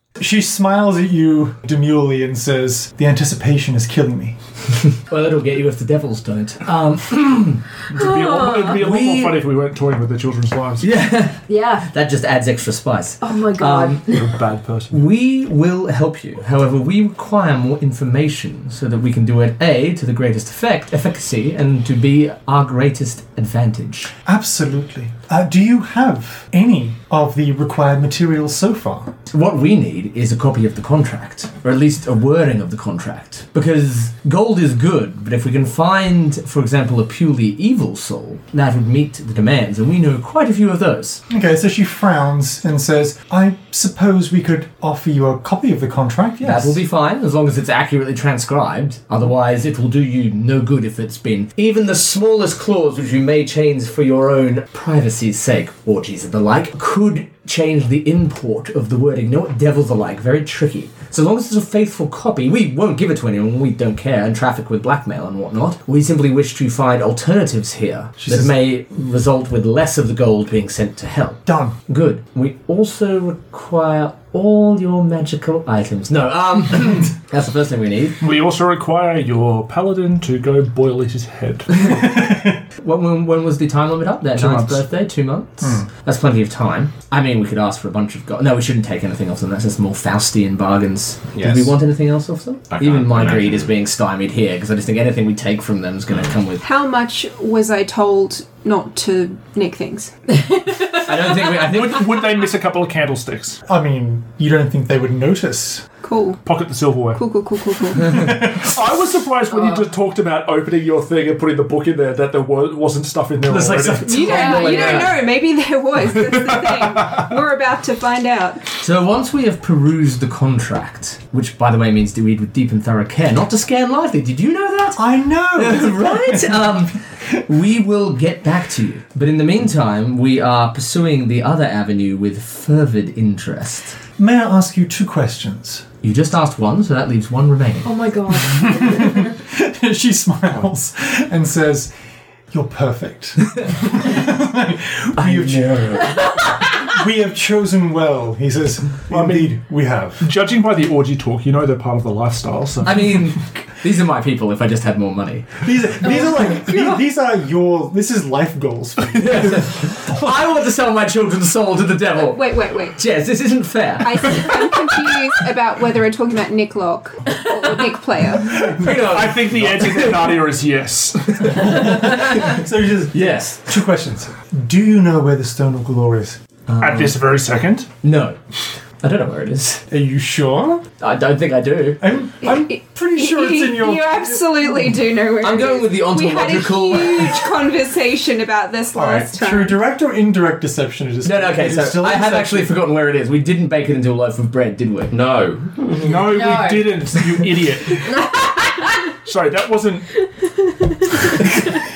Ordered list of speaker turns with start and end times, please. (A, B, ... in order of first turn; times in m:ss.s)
0:00.2-0:04.4 A
0:05.1-0:07.6 B
0:07.9-0:10.9 C
0:08.0-0:08.8 D
0:08.7-0:09.4 B
0:10.8-0:14.0 B
0:11.5-0:11.9 D
0:13.2-0:14.4 D
0:14.1-0:15.0 C
0:14.9-0:24.1 B
0:24.3-0:29.1 A
0:29.3-0:41.2 B
0:41.3-0:46.8 A
0:46.4-1:18.2 B
1:08.2-1:08.6 A
1:11.5-1:11.8 A
1:18.2-1:21.9 C
1:21.9-1:22.6 A
1:22.8-1:36.6 B
1:24.3-1:24.8 C
1:25.6-1:25.9 A
1:31.3-1:31.7 E
1:32.7-1:33.7 E
1:36.6-1:40.2 F
1:41.0-1:42.1 B
1:41.6-1:43.6 C
1:43.7-1:45.9 A
1:46.0-1:46.4 F
1:46.4-1:47.2 C
1:47.1-1:48.3 F
1:48.1-1:48.7 A
1:48.1-1:54.4 C
1:49.5-1:49.8 D
1:53.4-1:55.2 B
1:54.1-1:58.6 F
1:54.2-1:55.2 D
1:56.3-1:57.1 C
1:58.8-2:05.0 B
2:05.0-2:06.7 A
2:05.6-2:14.0 B
2:14.2-2:15.9 A
2:16.0-2:17.9 B
2:17.8-2:19.2 D
2:18.6-2:21.9 A
2:22.5-2:30.2 A
2:25.2-2:26.3 B
2:29.1-2:29.6 C
2:30.2-2:33.4 C
2:32.8-2:35.5 B
2:35.6-2:40.3 A
2:36.0-2:37.0 D
2:39.2-2:44.9 B
2:42.2-2:43.0 F
2:44.0-2:48.7 F
2:48.4-2:48.9 A
2:48.7-2:50.4 B
2:48.7-2:51.9 C
2:51.4-2:52.4 B
2:51.6-2:56.4 A
2:53.1-2:53.7 B
2:56.7-2:57.2 B
2:56.8-2:57.9 C
2:58.0-2:58.4 B
2:59.0-2:59.8 B
2:59.9-3:00.8 A
3:01.0-3:02.1 B
3:02.0-3:04.7 A
3:02.4-3:09.8 F
3:05.4-3:07.5 B
3:08.9-3:12.8 A
3:11.2-3:15.2 B
3:15.1-3:16.3 E
3:16.0-3:18.4 C
3:16.2-3:17.2 D
3:18.0-3:19.1 D
3:19.2-3:20.1 C
3:20.8-3:21.1 D